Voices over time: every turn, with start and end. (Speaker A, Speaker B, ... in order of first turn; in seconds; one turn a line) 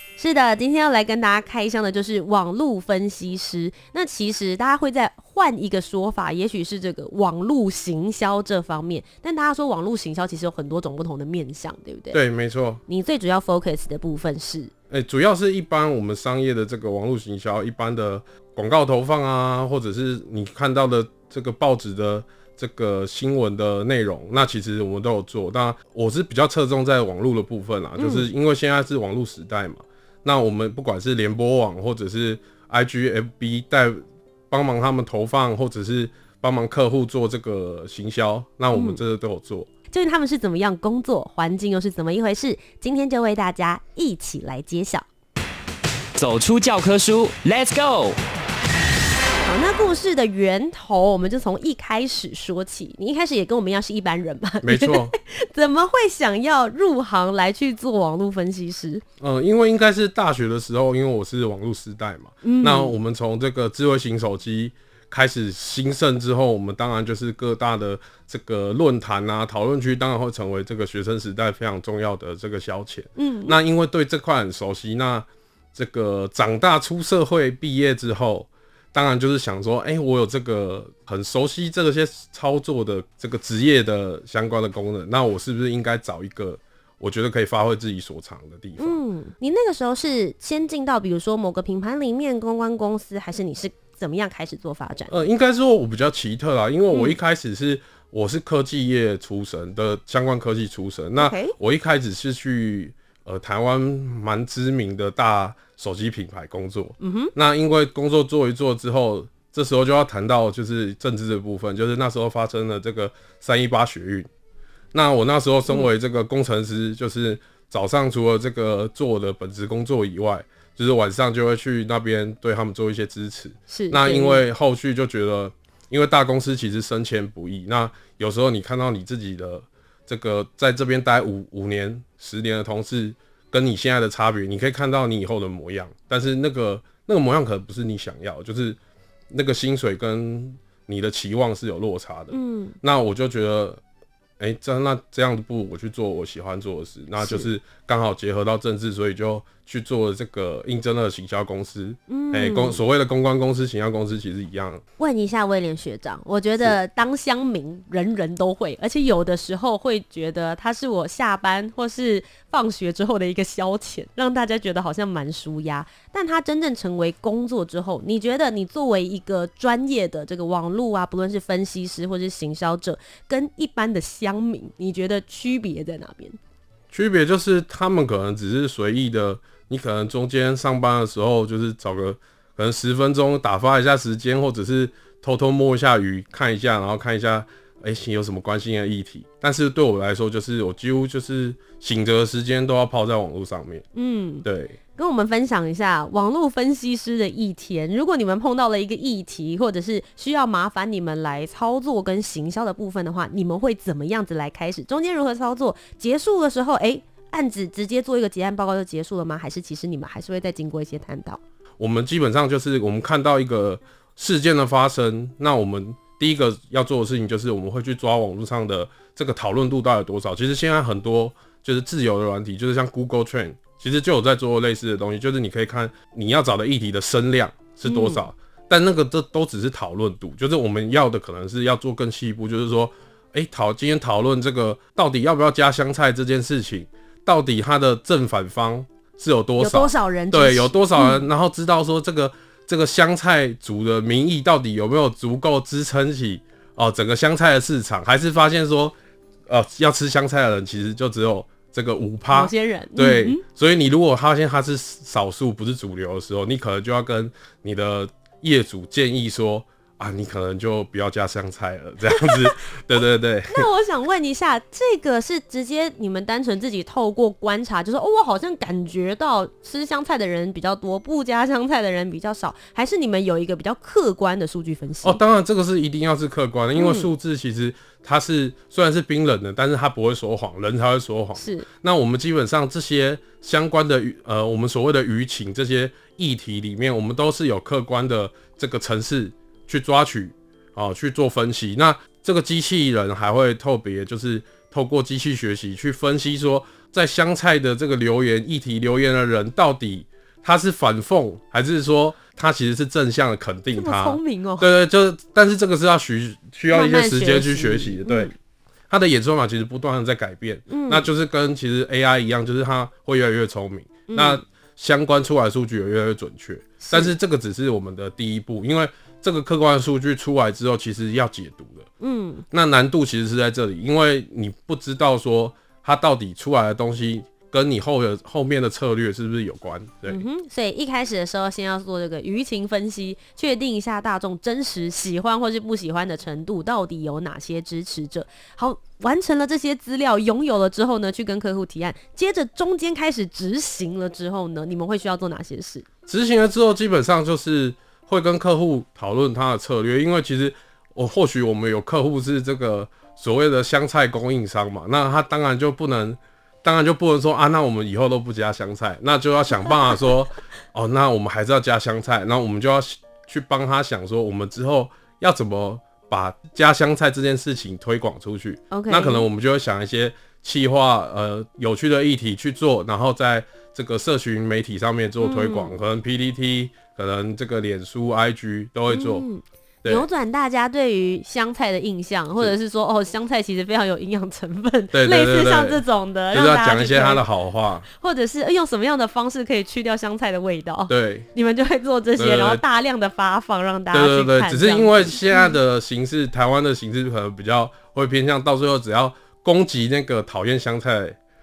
Speaker A: 0.2-12.2
Speaker B: 12.1-12.8
Speaker A: 12.9-14.7
Speaker B: 14.9-39.7
Speaker A: 28.0-28.3
Speaker A: 38.7-39.0
Speaker A: 39.9-45.0
Speaker C: 46.2-48.2
Speaker A: 49.4-59.0
Speaker B: 54.6-55.1
Speaker B: 59.2-89.0
Speaker A: 62.4-62.9
Speaker A: 73.2-73.6
Speaker A: 88.8-95.1
Speaker B: 95.1-114.3
Speaker A: 96.9-97.2
Speaker A: 101.2-101.5
Speaker A: 107.0-107.3
Speaker B: 114.9-138.8
Speaker A: 123.7-124.4
Speaker B: 139.3-143.8
Speaker A: 142.3-142.8
Speaker B: 144.4-154.8
Speaker A: 147.2-147.5
Speaker A: 152.1-152.8
Speaker A: 155.0-176.4
Speaker B: 176.9-193.8
Speaker A: 193.9-194.4
Speaker B: 194.4-194.8
Speaker A: 195.0-211.4
Speaker B: 211.8-248.9
Speaker A: 227.8-228.2
Speaker A: 239.6-241.3
Speaker B: 249.5-263.7
Speaker A: 252.3-253.4
Speaker A: 262.1-262.4
Speaker A: 263.5-275.2
Speaker B: 275.0-308.3
Speaker A: 276.8-277.1
Speaker A: 281.4-281.7
Speaker A: 303.7-304.7
Speaker A: 306.7-308.3
Speaker B: 308.9-321.9
Speaker A: 310.7-311.1
Speaker A: 314.1-314.4
Speaker A: 316.8-317.1
Speaker A: 322.0-322.4
Speaker B: 322.5-330.2
Speaker A: 330.1-345.9
Speaker B: 346.1-379.3
Speaker A: 368.7-369.2
Speaker A: 375.2-375.8
Speaker A: 378.9-387.2
Speaker B: 384.9-387.9
Speaker A: 388.0-395.6
Speaker B: 390.9-391.3
Speaker B: 392.2-392.6
Speaker B: 393.9-401.2